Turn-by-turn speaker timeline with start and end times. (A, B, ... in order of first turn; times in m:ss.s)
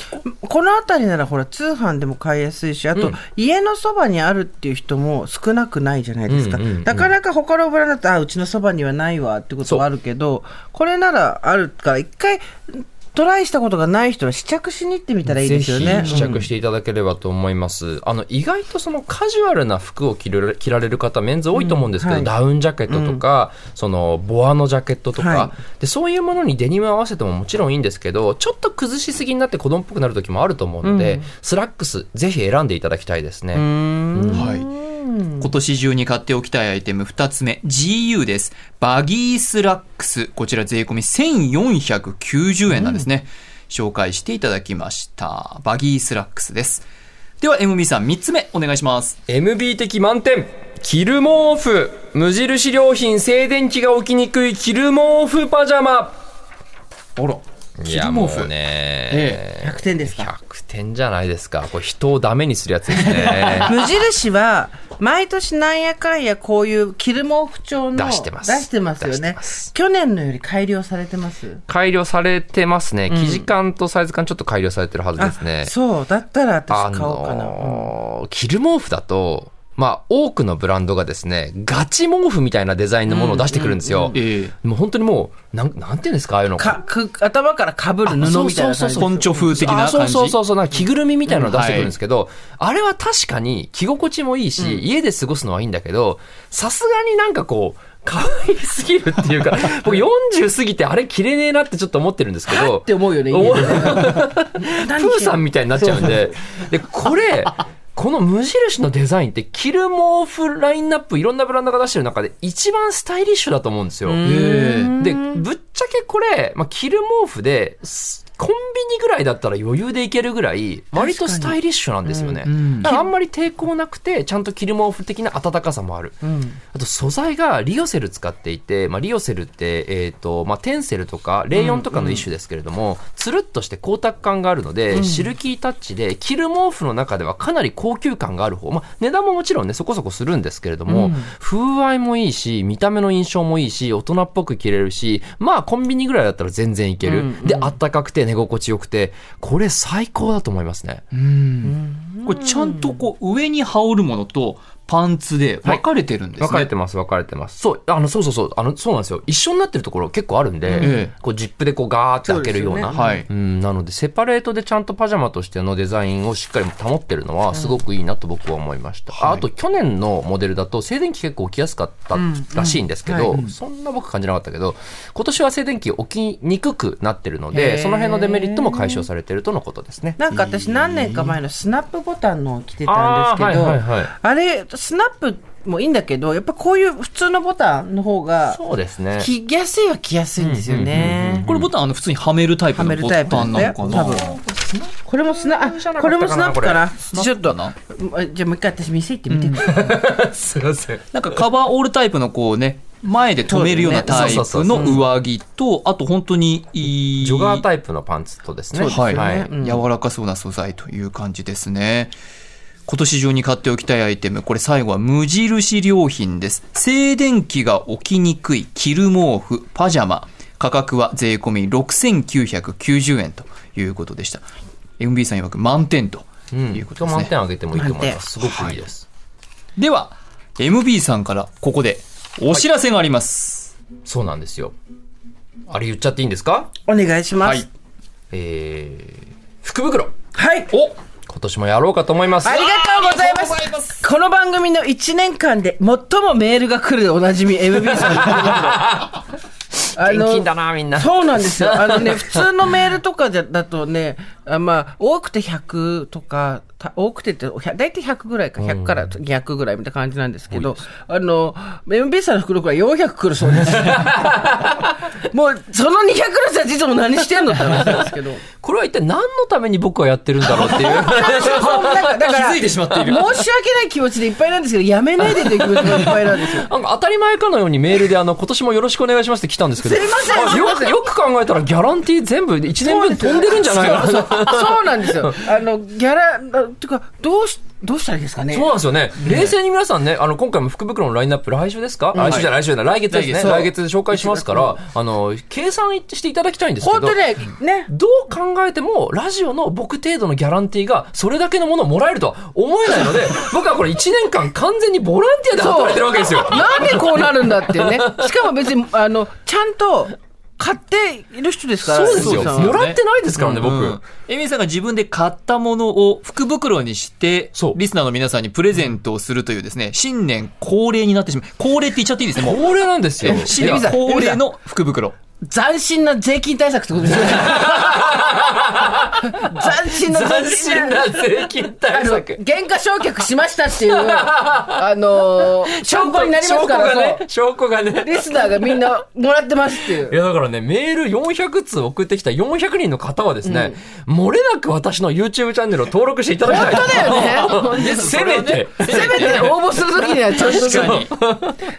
0:00.2-0:16.4 A
0:06.3-0:07.1 B
0:15.3-0:34.5 B
0:16.0-0:16.4 C
0:21.5-0:22.3 A
0:22.9-0:23.2 A
0:25.2-0:25.5 A
0:30.8-0:31.3 A
0:33.5-0:35.5 A
0:34.3-0:34.7 C
0:35.4-0:46.8 C
0:47.4-0:49.2 C
0:49.3-0:56.2 B
0:57.2-0:58.5 C
0:57.8-1:03.8 B
0:59.1-0:59.4 C
0:59.6-1:00.3 A
1:03.0-1:03.7 C
1:03.6-1:11.6 A
1:07.9-1:09.7 B
1:11.7-1:15.7 B
1:13.1-1:13.5 A
1:15.2-1:17.9 A
1:16.7-1:26.8 B
1:23.1-1:24.2 A
1:24.1-1:24.5 C
1:26.6-1:29.6 A
1:28.1-1:54.2 B
1:29.0-1:30.4 C
1:31.3-1:31.8 A
1:31.5-1:31.9 C
1:42.5-1:46.3 A
1:54.1-1:55.4 A
1:54.2-1:54.9 C
1:55.0-2:06.2 B
2:01.0-2:03.1 A
2:02.5-2:02.9 C
2:06.2-2:06.6 A
2:06.7-2:31.0 B
2:11.5-2:12.2 A
2:14.9-2:15.3 A
2:20.9-2:21.3 A
2:27.0-2:27.7 A
2:31.1-2:36.7 C
2:31.6-2:33.0 A
2:36.4-3:00.2 B
2:40.7-2:41.0 A
2:40.8-2:41.1 C
2:42.2-2:43.2 A
2:42.9-2:43.3 C
2:49.2-2:49.4 C
2:53.0-2:53.4 A
2:57.5-2:59.1 A
3:00.2-3:08.6 A
3:00.3-3:01.4 C
3:02.9-3:04.1 B
3:08.5-3:09.3 B
3:09.2-3:11.5 A
3:10.4-3:11.7 B
3:10.9-3:14.3 C
3:12.7-3:14.3 A
3:13.4-3:16.9 B
3:15.0-3:19.7 A
3:17.0-3:17.7 C
3:19.3-3:19.9 C
3:19.6-3:21.4 B
3:21.1-3:27.6 C
3:23.5-3:25.0 A
3:23.9-3:25.0 B
3:27.2-3:29.5 B
3:28.7-3:29.8 A
3:28.9-3:32.1 C
3:32.9-3:44.4 C
3:45.0-3:47.3 C
3:46.5-3:49.1 B
3:47.7-3:48.2 A
3:48.4-3:48.8 C
3:49.8-3:53.7 C
3:54.0-3:54.7 B
3:55.7-3:56.7 B
3:56.8-3:57.7 A
3:57.4-3:57.7 C
3:58.3-4:00.1 B
4:00.3-4:00.7 A
4:01.3-4:02.6 B
4:02.4-4:09.0 A
4:02.4-4:04.1 C
4:08.0-4:09.2 B
4:10.0-4:12.5 B
4:10.0-4:24.5 A
4:18.6-4:19.1 B
4:20.5-4:20.8 B
4:23.6-4:24.3 B
4:23.7-4:24.0 C
4:25.2-4:28.4 A
4:27.7-4:28.0 B
4:28.6-4:32.1 B
4:30.5-4:36.7 A
4:30.7-4:33.3 C
4:35.8-4:45.4 B
4:39.8-4:41.0 A
4:42.8-4:48.7 A
4:48.5-4:57.2 B
4:49.2-4:49.5 C
4:52.1-4:52.4 A
4:52.2-4:52.5 C
4:53.1-4:53.7 C
4:53.4-4:54.8 A
4:56.8-4:57.9 A
4:57.9-5:08.3 B
5:05.6-5:12.8 A
5:11.8-5:14.0 B
5:12.1-5:25.2 C
5:22.4-5:23.9 B
5:23.2-5:24.4 A
5:25.4-5:28.3 A
5:27.3-5:32.4 B
5:29.2-5:31.2 A
5:31.9-5:37.2 A
5:33.8-5:38.9 B
5:38.0-5:40.2 A
5:40.0-5:51.7 B
5:43.4-5:43.8 A
5:46.4-5:51.1 A
5:46.5-5:49.6 C
5:50.3-5:51.1 C